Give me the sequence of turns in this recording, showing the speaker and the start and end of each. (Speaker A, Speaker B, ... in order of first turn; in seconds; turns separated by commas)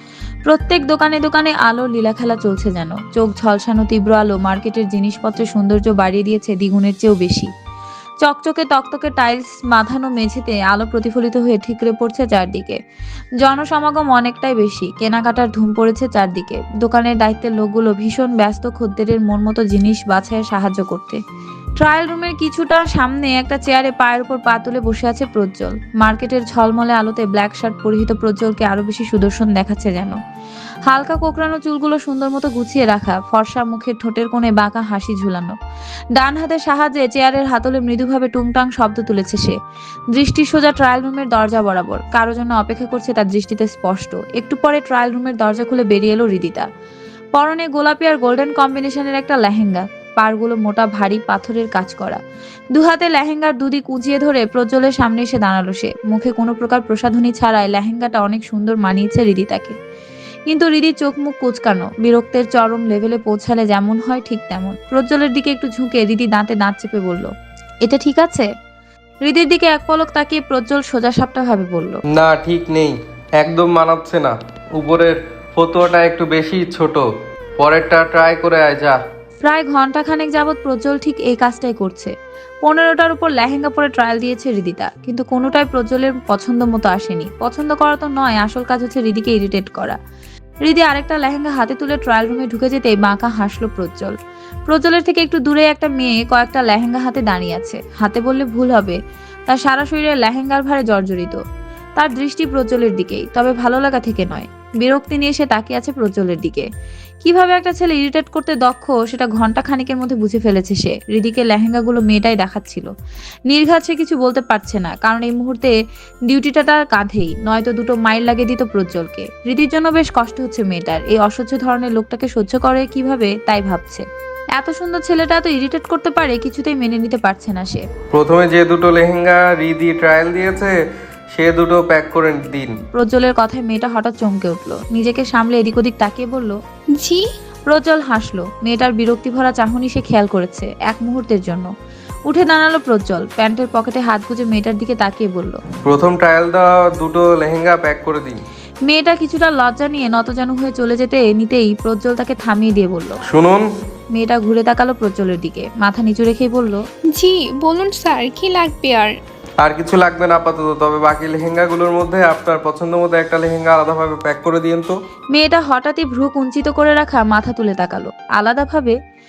Speaker A: 0.5-7.5, Speaker A: 8.2-12.8, Speaker A: 13.4-21.2, Speaker A: 21.8-30.2, Speaker A: 30.9-35.5, Speaker A: 36.1-39.5, Speaker A: 40.1-46.6, Speaker A: 47.3-52.2, Speaker A: 52.7-59.7, Speaker A: 60.5-67.3, Speaker A: 67.8-68.5, Speaker A: 69.2-72.0, Speaker B: 72.1-77.0, Speaker B: 77.6-79.0, Speaker A: 79.4-82.1, Speaker A: 82.6-90.0, Speaker A: 90.6-94.1, Speaker A: 94.7-99.0, Speaker A: 99.5-101.4, Speaker A: 102.0-106.7, Speaker A: 107.2-112.9, Speaker A: 113.5-115.7, Speaker A: 116.3-124.0, Speaker A: 124.5-127.8, Speaker B: 128.1-130.7, Speaker B: 131.3-132.7, Speaker A: 132.9-136.6, Speaker C: 136.9-137.2, Speaker A: 137.7-141.7, Speaker A: 142.3-145.6, Speaker B: 145.8-148.4, Speaker A: 148.8-153.2, Speaker B: 153.3-153.7, Speaker A: 154.1-156.8, Speaker C: 157.1-159.1, Speaker B: 159.6-164.9, Speaker A: 165.3-168.9